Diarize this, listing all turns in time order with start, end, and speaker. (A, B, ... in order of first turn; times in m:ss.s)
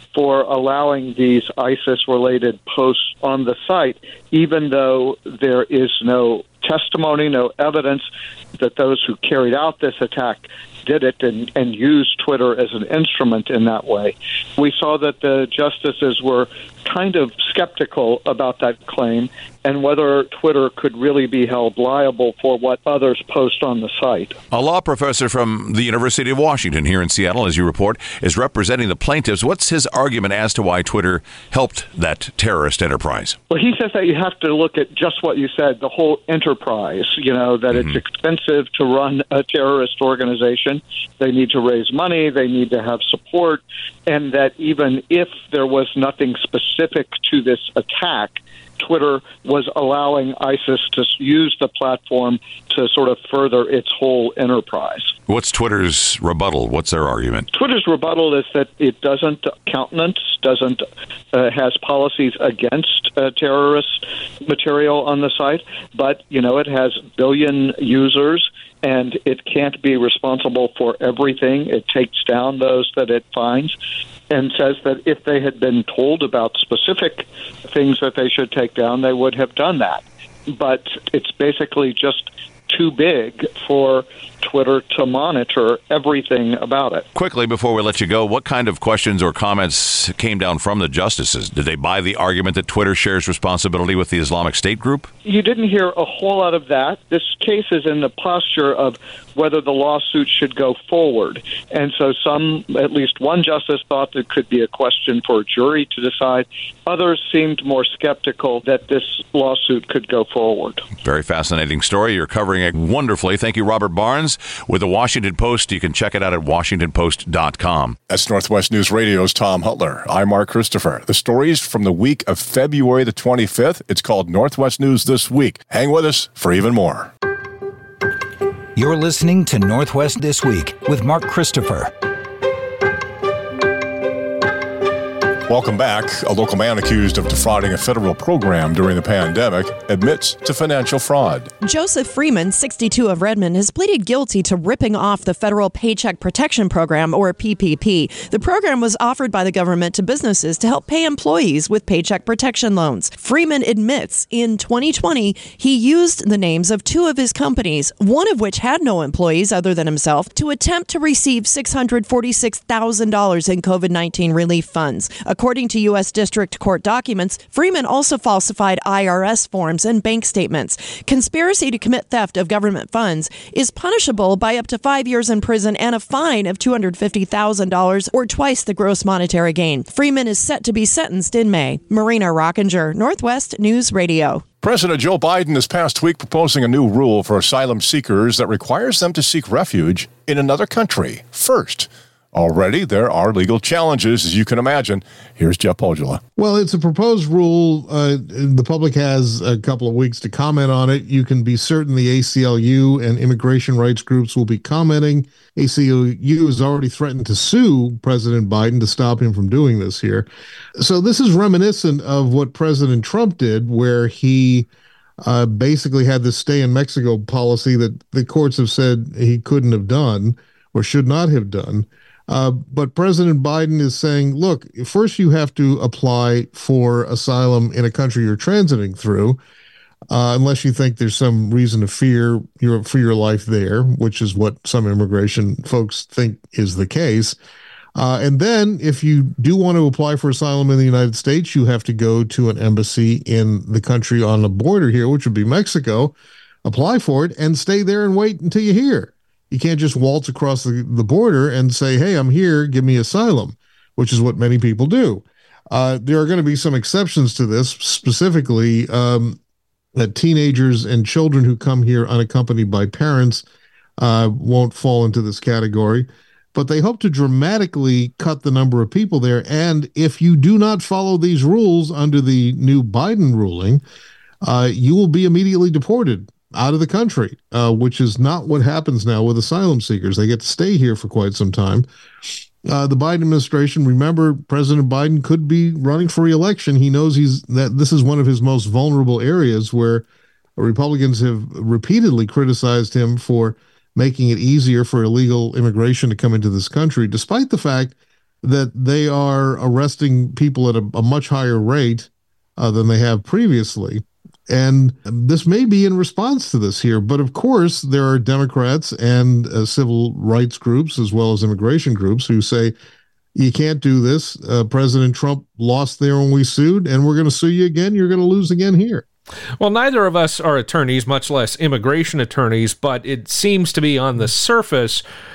0:00.2-0:08.0 A
0:08.6-0:24.3 A
0:24.5-0:33.4 B
0:33.5-0:43.6 A
0:37.7-0:38.0 B
0:44.1-0:55.1 A
0:55.3-0:57.5 B
0:57.7-1:00.8 A
1:01.4-1:03.8 A
1:04.5-1:13.7 A
1:14.3-1:17.2 A
1:17.7-1:20.0 A
1:20.6-1:27.0 A
1:27.1-1:35.1 B
1:35.2-1:50.8 A
1:51.0-1:58.0 B
1:58.1-2:07.1 C
2:08.7-2:11.9 D
2:15.5-2:21.5 C
2:21.6-3:04.4 E
3:04.6-3:16.2 C
3:16.4-3:30.3 F
3:30.8-3:34.7 F
3:35.2-3:49.4 F
3:50.1-3:57.4 F
3:58.0-4:06.1 F
4:06.6-4:19.4 F
4:20.0-4:23.4 F
4:24.0-4:33.8 F
4:34.4-4:41.8 F
4:42.6-4:50.0 F
4:50.6-5:12.7 F
5:13.3-5:19.0 F
5:19.6-5:25.0 G